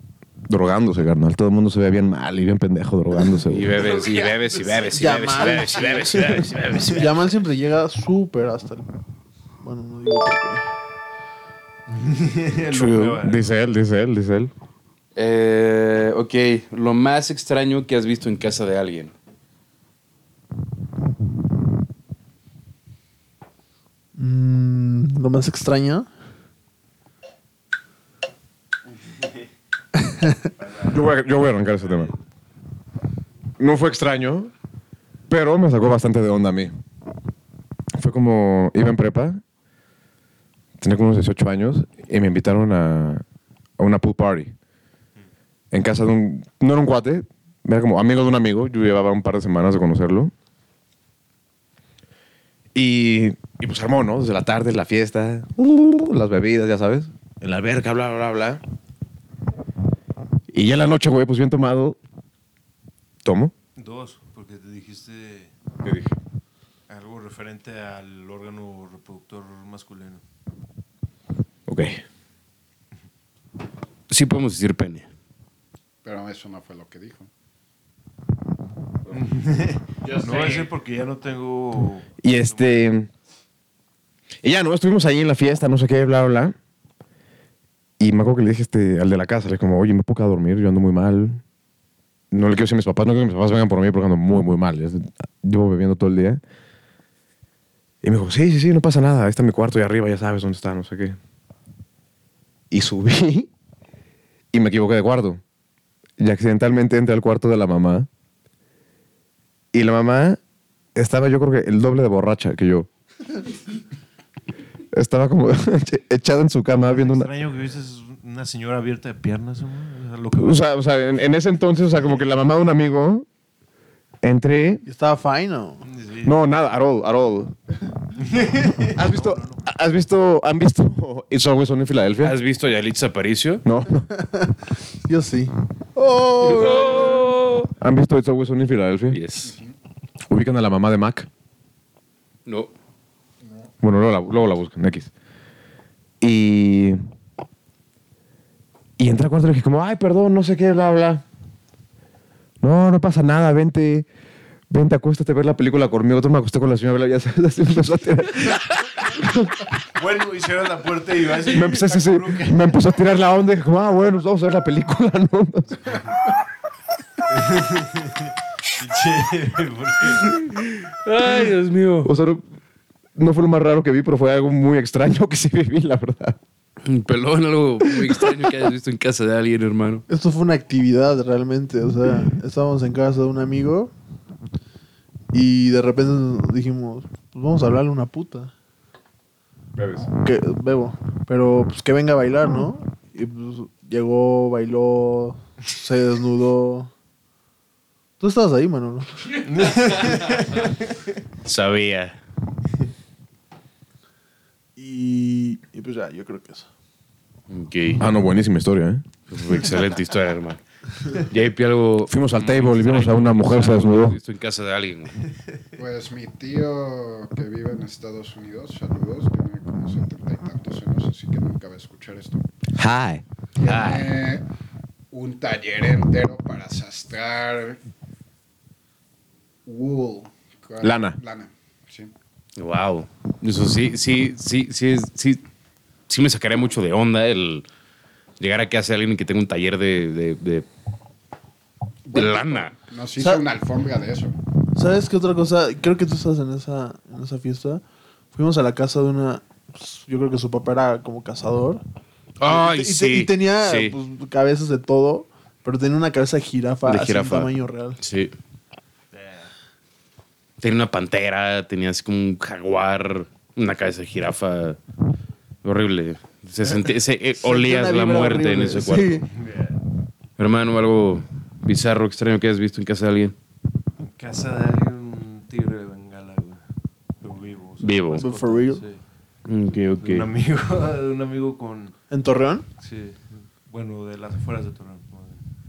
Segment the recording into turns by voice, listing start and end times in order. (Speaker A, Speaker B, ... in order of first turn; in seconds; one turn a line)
Speaker A: 0.5-3.8
Speaker B: 3.5-7.3
Speaker C: 3.8-4.4
Speaker D: 4.9-8.9
Speaker D: 9.6-10.7
Speaker C: 11.9-13.4
Speaker B: 12.7-13.1
Speaker A: 12.8-14.5
Speaker B: 15.2-19.1
Speaker D: 24.2-26.1
Speaker C: 30.6-30.9
Speaker A: 30.8-32.1
Speaker A: 33.6-34.5
Speaker A: 35.3-36.7
Speaker A: 37.9-39.4
Speaker A: 40.8-43.2
Speaker A: 43.8-44.5
Speaker A: 45.7-50.3
Speaker A: 52.8-58.6
Speaker A: 60.5-62.0
Speaker A: 63.2-63.5
Speaker C: 63.8-65.5
Speaker A: 65.8-66.2
Speaker C: 66.9-70.2
Speaker A: 71.7-72.0
Speaker B: 74.1-75.1
Speaker E: 76.0-77.3
Speaker C: 79.1-82.8
Speaker B: 80.3-80.6
Speaker A: 82.2-83.1
Speaker A: 84.4-86.5
Speaker A: 88.0-91.4
Speaker A: 92.3-96.4
Speaker A: 98.0-101.2
Speaker A: 102.7-103.5
Speaker A: 104.5-105.4
Speaker A: 106.2-108.1
Speaker A: 109.7-110.4
Speaker A: 111.0-112.9
Speaker A: 114.9-117.3
Speaker C: 116.9-120.6
Speaker A: 120.4-123.3
Speaker A: 124.2-124.8
Speaker D: 124.9-125.8
Speaker C: 125.8-126.3
Speaker A: 126.2-127.5
Speaker C: 128.2-129.4
Speaker A: 129.0-132.4
Speaker B: 132.2-133.6
Speaker A: 133.7-134.1
Speaker D: 134.1-135.5
Speaker A: 136.0-137.2
Speaker B: 136.4-137.7
Speaker A: 137.8-139.2
Speaker B: 139.1-139.6
Speaker E: 139.4-139.7
Speaker A: 140.3-141.3
Speaker B: 142.5-142.7
Speaker A: 143.8-145.1
Speaker A: 146.2-147.0
Speaker A: 149.0-151.2
Speaker A: 152.6-154.1
Speaker A: 154.7-159.7
Speaker C: 160.0-162.8
Speaker A: 161.5-166.0
Speaker C: 167.3-170.5
Speaker B: 170.3-172.1
Speaker A: 172.0-172.4
Speaker A: 173.2-176.4
Speaker B: 176.8-180.1
Speaker D: 180.1-183.9
Speaker D: 185.3-188.5
Speaker A: 189.8-190.1
Speaker D: 190.1-196.9
Speaker D: 198.2-199.4
Speaker C: 199.4-200.9
Speaker B: 201.4-202.2
Speaker D: 204.8-206.7
Speaker B: 207.5-208.0
Speaker A: 208.0-209.1
Speaker B: 209.3-215.3
Speaker A: 212.1-214.2
Speaker E: 215.8-222.4
Speaker A: 222.8-223.2
Speaker E: 223.6-224.5
Speaker B: 223.6-224.2
Speaker E: 225.1-227.8
Speaker E: 229.7-232.1
Speaker A: 230.8-231.2
Speaker B: 232.6-235.4
Speaker B: 236.1-237.7
Speaker B: 238.4-240.7
Speaker E: 242.1-244.4
Speaker B: 242.1-242.7
Speaker D: 243.2-243.4
Speaker D: 244.7-247.8
Speaker D: 248.3-251.8
Speaker B: 252.4-253.9
Speaker D: 252.4-258.0
Speaker B: 256.9-258.3
Speaker C: 259.1-259.5
Speaker B: 260.6-264.8
Speaker B: 265.6-269.3
Speaker D: 267.4-269.3
Speaker C: 269.3-269.8
Speaker B: 270.4-273.4
Speaker C: 274.0-276.6
Speaker C: 277.2-279.0
Speaker B: 277.8-278.2
Speaker D: 278.1-278.8
Speaker B: 279.5-280.3
Speaker C: 280.0-282.0
Speaker D: 282.1-282.7
Speaker C: 282.8-285.4